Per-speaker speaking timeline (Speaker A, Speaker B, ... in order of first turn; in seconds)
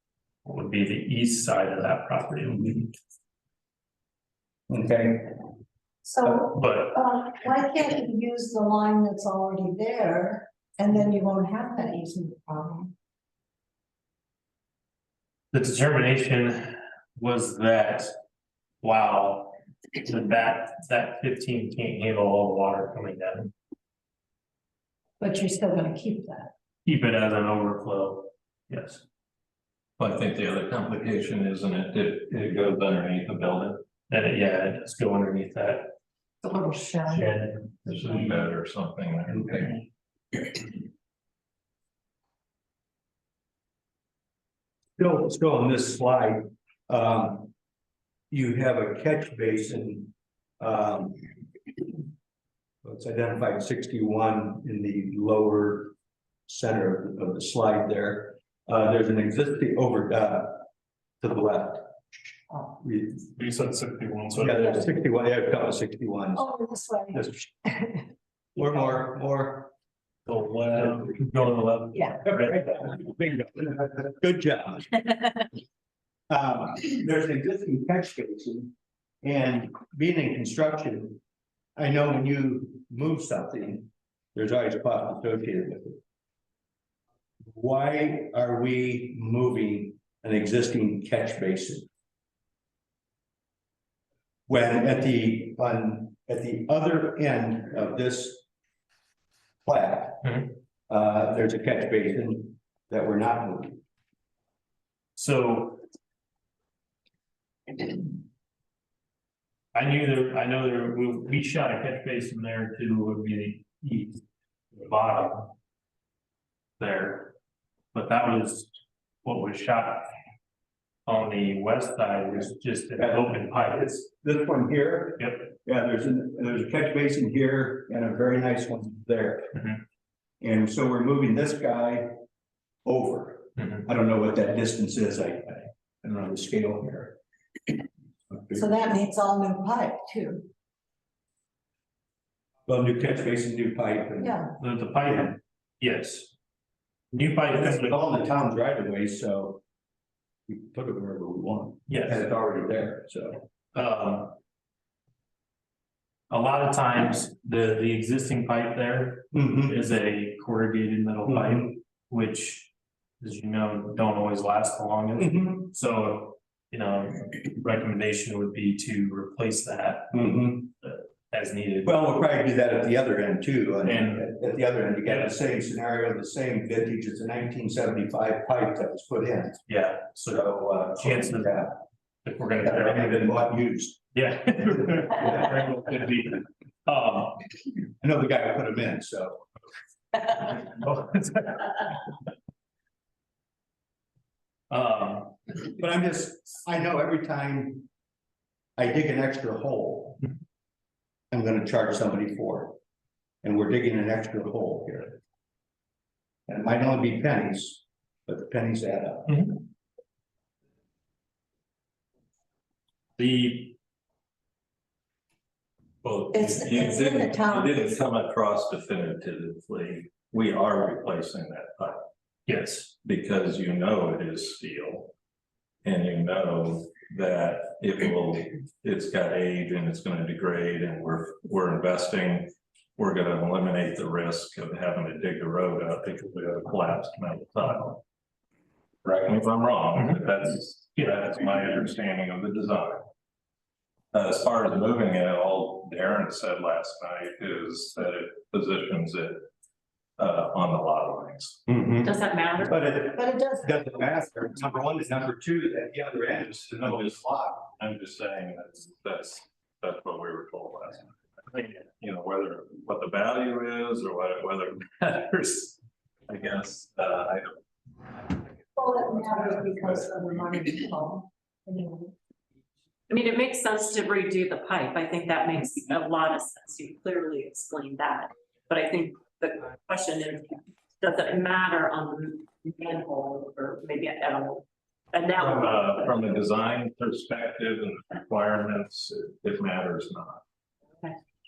Speaker A: 0.4-2.9, 6.4-7.0, 15.5-18.1, 18.8-23.5, 26.8-29.0, 34.1-35.9, 37.0-37.9, 63.4-64.8, 70.2-72.7, 100.2-100.5, 105.2-105.8, 109.7-115.5, 116.8-117.3, 117.9-120.1, 121.0-123.9, 125.2-125.5, 133.6-133.8, 144.6-146.3, 147.1-148.0, 151.9-152.2, 153.7-154.4, 156.3-170.2, 170.8-171.9, 173.8-174.3, 175.1-175.3, 179.7-181.7, 182.2-183.3, 184.1-187.4, 190.4-191.9, 194.7-195.4, 209.3-209.6, 213.2-213.7, 216.0-216.4, 222.5-222.9, 241.0-241.2
Speaker B: 2.5-2.8, 4.7-5.3, 45.0-47.5, 48.3-51.2, 52.8-55.9, 56.5-60.6, 61.2-62.0, 62.6-63.3, 64.4-66.5, 67.1-67.5, 68.5-69.7, 72.2-75.0, 76.3-81.2, 81.8-86.0, 87.5-91.9, 94.5-98.4, 99.6-100.4, 100.9-103.8, 123.0-129.6, 130.4-132.1, 132.8-137.2, 138.3-138.7, 142.7-144.5, 145.0-145.3, 147.5-149.6, 150.5-153.4, 159.3-159.8, 161.2-161.7, 165.2-165.7, 170.1-170.7, 171.8-179.6, 180.3-181.8, 182.6-184.0, 185.0-185.6, 188.0-189.4, 195.8-197.9, 198.8-200.2, 201.3-202.8, 203.4-205.2, 206.5-209.6, 251.7-257.6
Speaker C: 6.0-12.9, 25.2-26.5, 66.3-68.0, 138.5-140.5, 144.2-144.5, 216.3-217.9, 253.2-253.7, 268.8-272.1
Speaker D: 30.0-33.8, 37.8-39.8, 216.1-222.0, 223.0-225.1, 225.8-238.0, 239.0-243.0, 244.1-249.4, 250.2-251.6, 256.7-267.6, 285.4-290.4
Speaker E: 252.0-252.8, 273.1-286.3